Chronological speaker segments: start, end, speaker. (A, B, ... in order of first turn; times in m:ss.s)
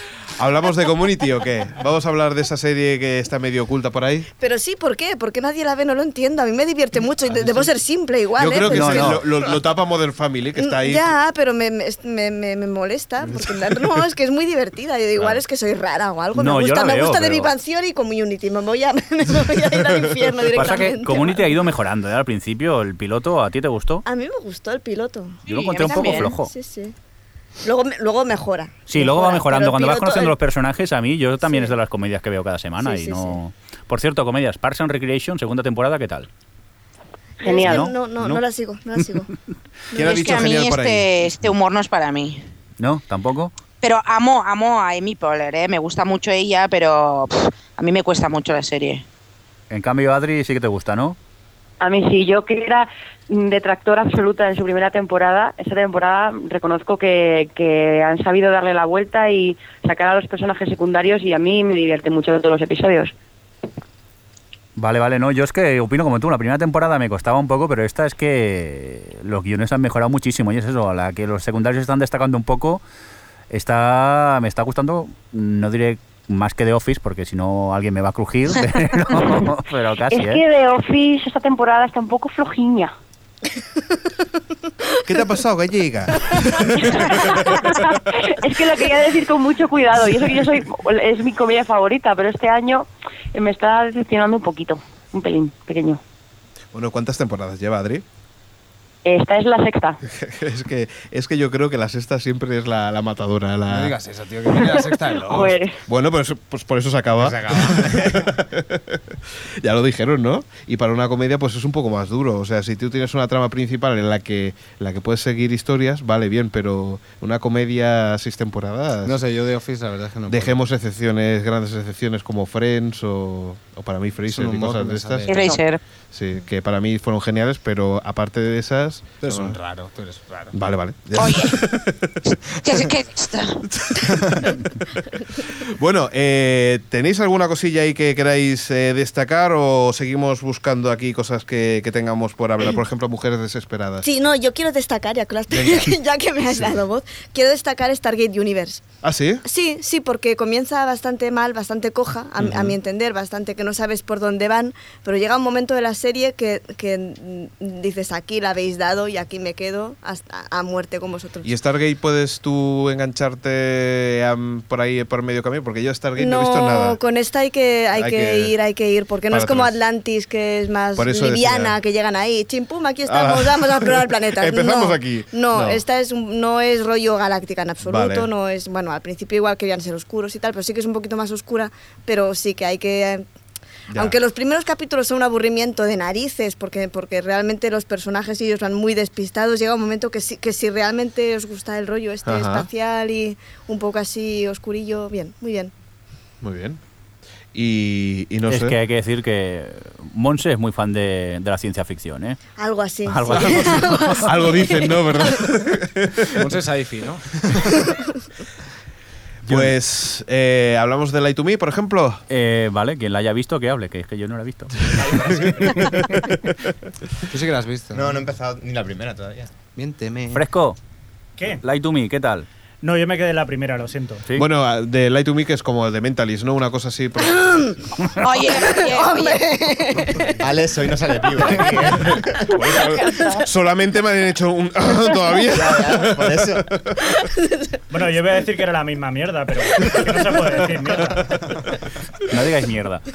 0:00.4-0:04.3 A
0:04.4-0:09.3 B
0:08.4-0:11.1 A
0:08.6-0:09.2 C
0:10.6-0:21.6 B
0:16.4-0:17.5 C
0:19.6-0:20.4 A
0:20.5-0:24.0 C
0:24.1-0:27.0 B
0:25.5-0:26.5 C
0:25.5-0:26.3 D
0:27.6-0:30.4 B
0:28.9-0:36.3 C
0:31.4-0:31.8 B
0:32.8-0:33.4 B
0:37.4-0:37.9 E
0:37.4-0:39.3 B
0:37.6-0:37.9 C
0:39.9-0:40.2 B
0:39.9-0:41.5 A
0:40.0-0:42.4 D
0:42.8-0:43.5 C
0:43.8-0:49.0 D
0:49.7-0:51.2 C
0:51.8-1:03.1 E
1:04.8-1:12.8 C
1:13.5-1:20.4 C
1:20.1-1:22.9 E
1:25.0-1:27.4 A
1:26.8-1:36.0 E
1:36.7-1:38.0 A
1:39.0-1:40.0 E
1:40.1-1:44.0 A
1:43.7-1:45.6 F
1:44.5-1:45.8 E
1:45.9-1:59.2 A
1:47.2-1:48.3 F
1:59.0-2:00.6 F
2:00.3-2:05.3 A
2:04.3-2:05.6 F
2:05.3-2:05.8 D
2:06.1-2:09.6 A
2:09.2-2:10.5 F
2:10.5-2:12.2 A
2:11.2-2:11.6 D
2:12.3-2:13.6 D
2:13.7-2:14.6 A
2:14.1-2:14.5 F
2:15.5-2:24.1 A
2:24.0-2:28.8 B
2:26.5-2:26.8 A
2:29.0-2:29.4 A
2:29.4-2:41.5 B
2:32.4-2:32.8 A
2:41.4-2:47.0 A
2:46.2-3:03.2 B
2:47.9-2:48.5 A
2:49.3-2:49.8 A
2:51.0-2:51.8 A
2:53.1-2:55.8 A
2:57.8-2:58.3 A
3:03.9-3:04.2 A
3:03.9-3:15.7 B
3:12.2-3:12.7 A
3:16.4-3:16.8 A
3:17.5-3:18.8 A
3:18.5-3:22.4 C
3:22.6-3:25.4 B
3:23.1-3:24.3 C
3:24.2-3:26.4 A
3:26.4-3:27.9 F
3:29.5-3:32.2 A
3:32.3-3:34.9 C
3:35.1-3:36.6 A
3:35.2-3:35.7 G
3:35.2-3:35.7 F
3:37.3-3:38.1 F
3:37.9-3:39.5 G
3:39.8-3:40.4 F
3:40.3-3:40.8 C
3:41.4-3:41.6 H
3:41.6-3:42.5 C
3:42.8-3:44.3 H
3:44.4-3:47.7 A
3:47.3-3:50.4 B
3:48.2-3:49.4 D
3:50.4-3:52.4 G
3:52.0-3:57.2 A
3:52.5-3:53.4 E
3:55.5-3:56.7 G
3:57.1-3:57.4 B
3:57.9-4:01.6 H
4:02.3-4:03.0 C